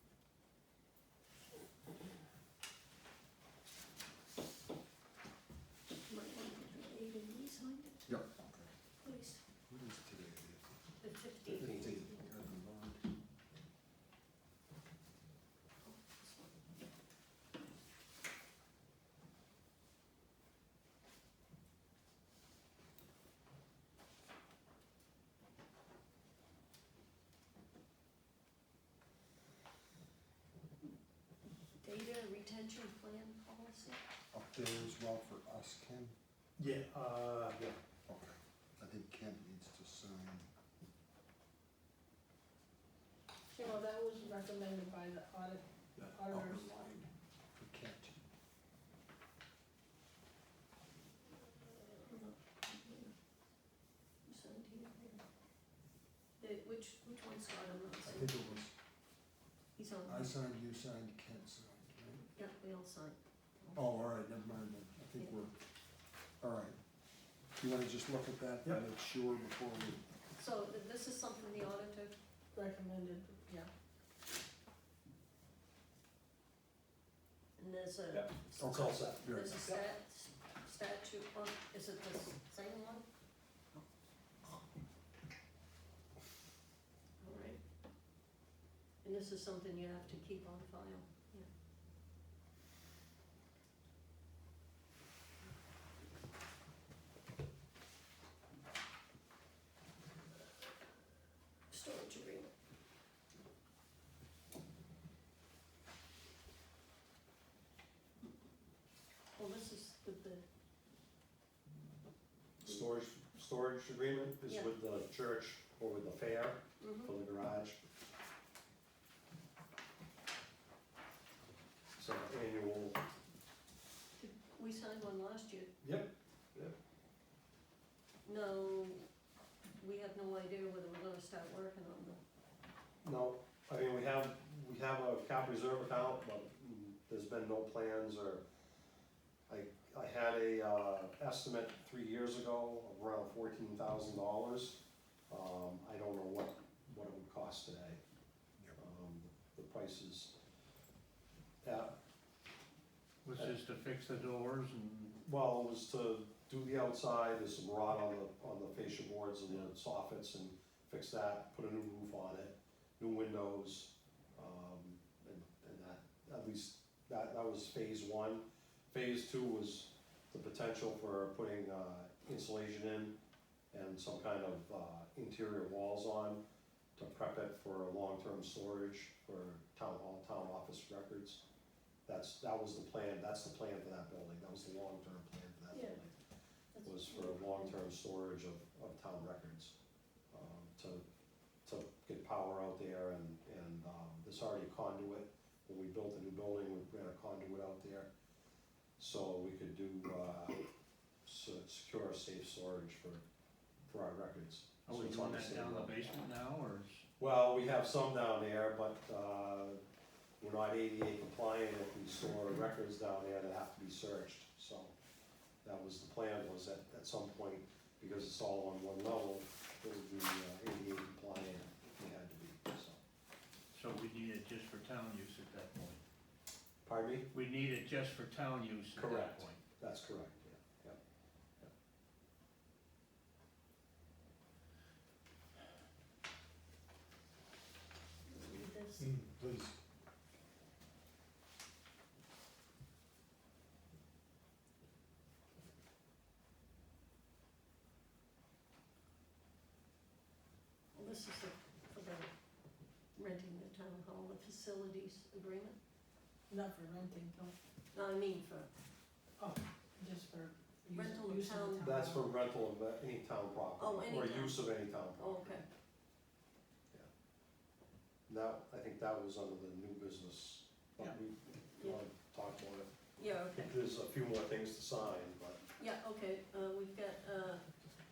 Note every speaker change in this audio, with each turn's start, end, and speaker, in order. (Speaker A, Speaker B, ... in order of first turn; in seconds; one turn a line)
Speaker A: 6.1-8.0
Speaker B: 8.1-8.4
Speaker A: 8.9-9.4
Speaker B: 9.7-10.8
Speaker A: 11.0-12.2
Speaker B: 11.4-13.1
Speaker C: 11.6-11.9
Speaker A: 15.8-16.6
Speaker A: 31.8-34.0
Speaker B: 34.3-36.1
Speaker C: 36.6-37.7
Speaker B: 38.0-40.5
Speaker D: 43.5-47.1
Speaker B: 46.0-46.7
Speaker B: 47.6-48.2
Speaker A: 51.8-53.1
Speaker A: 54.2-55.2
Speaker A: 56.4-58.3
Speaker B: 58.0-58.7
Speaker A: 59.8-60.3
Speaker B: 60.0-62.2
Speaker A: 62.3-63.8
Speaker B: 63.7-65.6
Speaker B: 66.4-66.8
Speaker B: 67.6-70.0
Speaker A: 70.3-72.1
Speaker D: 72.5-73.4
Speaker A: 77.6-83.1
Speaker C: 78.1-79.8
Speaker B: 78.6-79.6
Speaker A: 87.2-87.6
Speaker A: 89.0-91.5
Speaker A: 101.7-102.5
Speaker A: 109.3-110.4
Speaker C: 112.6-117.8
Speaker A: 114.5-114.7
Speaker A: 116.8-117.1
Speaker C: 122.0-123.0
Speaker A: 124.2-125.7
Speaker C: 125.8-126.7
Speaker A: 128.2-129.1
Speaker A: 129.8-132.2
Speaker C: 133.0-138.4
Speaker C: 139.5-148.0
Speaker C: 148.8-150.3
Speaker C: 151.6-151.9
Speaker E: 153.2-155.2
Speaker C: 155.2-173.1
Speaker C: 173.7-176.4
Speaker C: 176.9-181.4
Speaker C: 182.1-186.1
Speaker A: 185.7-186.0
Speaker A: 186.7-187.7
Speaker C: 186.8-189.7
Speaker C: 190.3-191.0
Speaker C: 191.7-198.1
Speaker C: 199.0-200.6
Speaker C: 201.2-203.2
Speaker C: 203.9-206.1
Speaker E: 204.8-207.0
Speaker C: 207.2-209.8
Speaker C: 210.4-214.9
Speaker C: 215.6-223.0
Speaker E: 223.7-226.0
Speaker C: 226.8-227.3
Speaker E: 227.3-229.6
Speaker C: 228.9-231.0
Speaker A: 238.3-239.1
Speaker B: 239.0-239.8
Speaker A: 250.9-252.3
Speaker A: 253.1-255.8
Speaker D: 256.5-257.5
Speaker A: 257.9-258.7
Speaker D: 259.4-262.3
Speaker A: 260.9-261.8
Speaker C: 261.8-265.6
Speaker A: 263.8-265.6
Speaker C: 268.3-272.9
Speaker A: 273.2-273.7
Speaker C: 273.5-275.6
Speaker A: 275.8-277.7